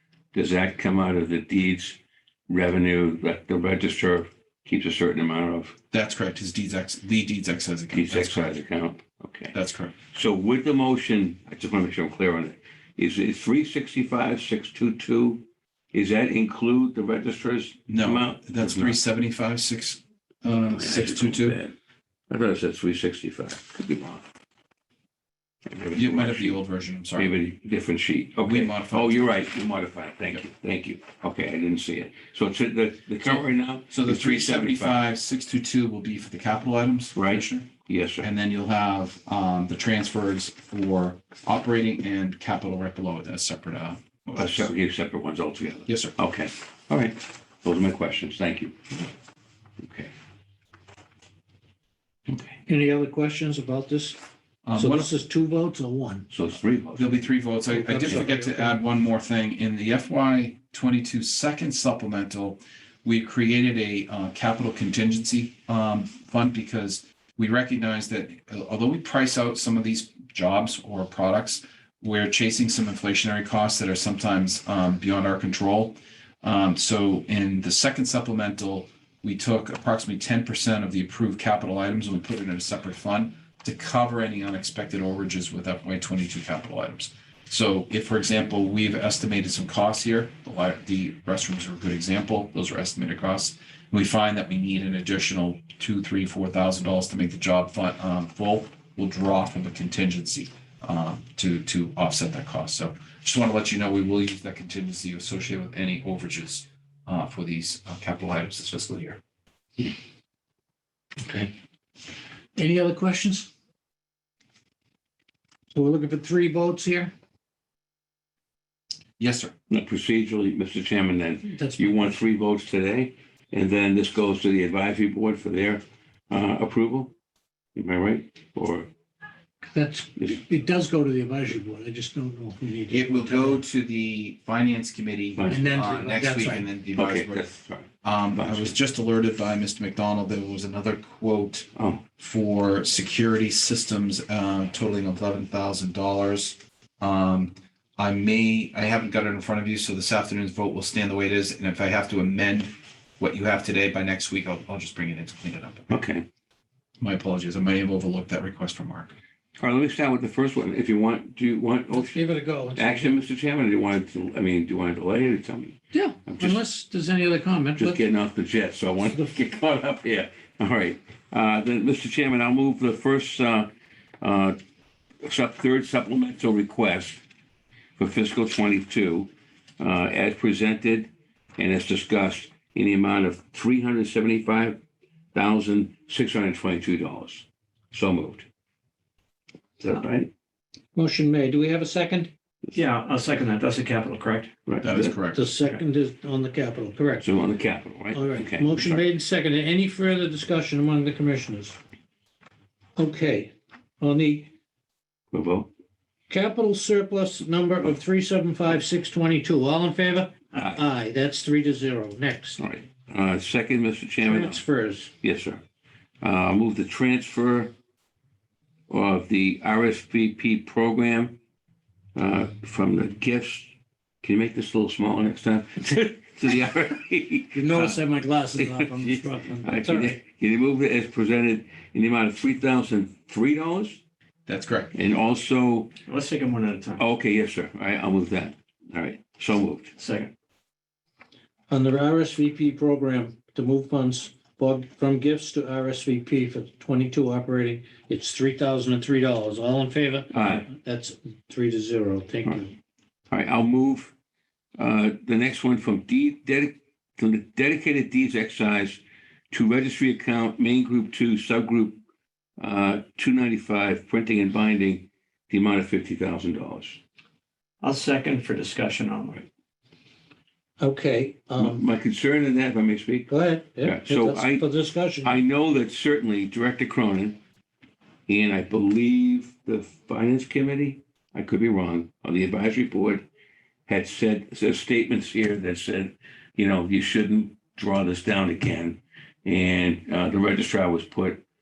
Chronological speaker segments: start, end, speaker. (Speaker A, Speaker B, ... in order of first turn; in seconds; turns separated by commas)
Speaker A: 0.3-5.8, Speaker B: 5.9-8.6, Speaker A: 7.9-9.6, Speaker B: 9.5-9.9, Speaker A: 10.1-19.0, Speaker B: 17.9-21.6, Speaker A: 20.7-21.8, Speaker A: 22.3-24.2, Speaker A: 25.7-26.6, Speaker B: 25.9-27.3, Speaker A: 27.2-35.0, Speaker B: 28.4-29.3, Speaker B: 33.2-37.7, Speaker A: 37.1-38.3, Speaker B: 38.2-44.7, Speaker A: 44.4-49.1, Speaker B: 45.9-46.2, Speaker A: 49.8-50.1, Speaker A: 52.3-52.6, Speaker C: 52.7-54.2, Speaker B: 54.6-55.1, Speaker C: 54.8-56.3, Speaker A: 56.3-57.3, Speaker B: 57.0-109.2, Speaker C: 57.7-58.8, Speaker C: 111.2-111.5, Speaker C: 112.6-113.5, Speaker C: 115.7-117.1, Speaker B: 119.2-119.5, Speaker A: 119.7-127.1, Speaker C: 121.5-122.2, Speaker A: 127.8-128.9, Speaker C: 129.7-133.6, Speaker A: 130.2-130.4, Speaker B: 132.9-137.5, Speaker A: 135.4-135.6, Speaker C: 135.5-136.7, Speaker A: 136.9-138.8, Speaker B: 138.0-155.9, Speaker A: 141.8-142.0, Speaker A: 155.9-156.3, Speaker B: 157.0-159.1, Speaker A: 159.6-166.6, Speaker C: 161.9-163.2, Speaker C: 165.9-168.0, Speaker A: 167.8-173.7, Speaker A: 174.2-174.6, Speaker A: 175.2-177.2, Speaker A: 178.0-184.8, Speaker A: 185.3-188.5, Speaker A: 189.8-190.3, Speaker C: 190.9-192.3, Speaker D: 192.7-194.5, Speaker A: 194.7-195.2, Speaker B: 194.8-195.5, Speaker C: 195.2-197.3, Speaker A: 197.2-199.1, Speaker C: 198.1-201.8, Speaker C: 203.0-204.5, Speaker A: 205.3-205.7, Speaker C: 206.3-212.6, Speaker A: 210.5-210.8, Speaker A: 212.6-214.6, Speaker C: 214.2-215.1, Speaker A: 215.2-215.6, Speaker A: 216.2-217.7, Speaker A: 218.9-221.4, Speaker A: 222.2-228.0, Speaker C: 227.5-230.2, Speaker A: 228.6-234.0, Speaker B: 234.5-234.9, Speaker A: 234.9-235.9, Speaker D: 236.1-237.0, Speaker A: 237.0-239.9, Speaker D: 240.0-240.3, Speaker C: 241.7-252.8, Speaker A: 250.3-250.7, Speaker A: 253.3-254.1, Speaker A: 254.8-262.0, Speaker A: 262.6-267.0, Speaker D: 267.8-269.5, Speaker C: 270.8-271.8, Speaker A: 271.6-274.6, Speaker C: 273.3-275.4, Speaker A: 275.2-277.4, Speaker A: 278.3-283.3, Speaker A: 283.9-291.4